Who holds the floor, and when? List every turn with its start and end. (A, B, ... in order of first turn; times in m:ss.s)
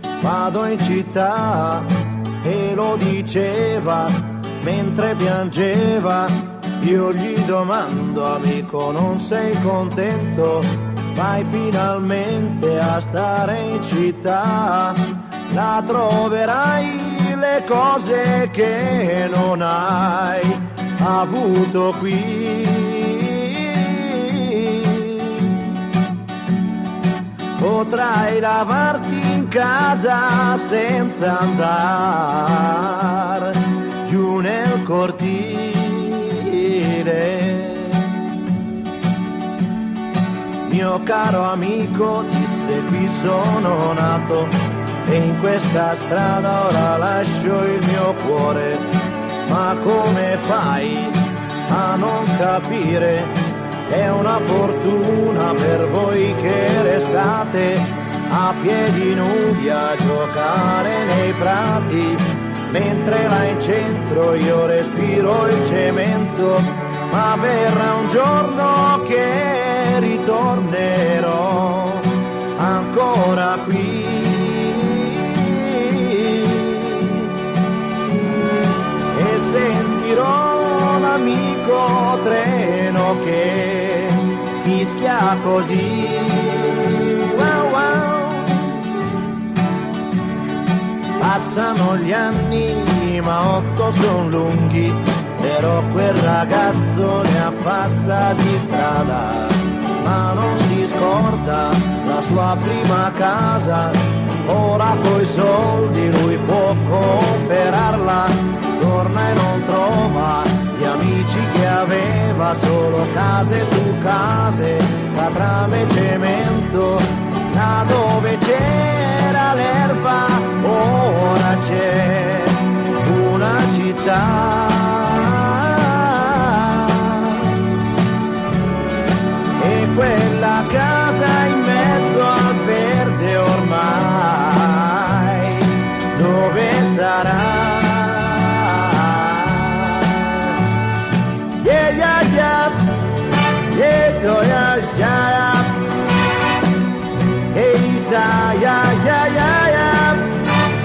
0:00.2-0:25.7 A
0:27.6-0:38.1 A
0:40.7-0:44.6 A
0:45.0-0:48.9 A
0:49.4-0:53.4 A
0:53.9-1:17.3 A
1:19.1-1:28.8 A
1:31.2-2:07.5 A
2:09.6-2:20.6 A
2:21.6-2:22.9 A
2:23.7-2:25.8 A
2:27.5-2:30.3 A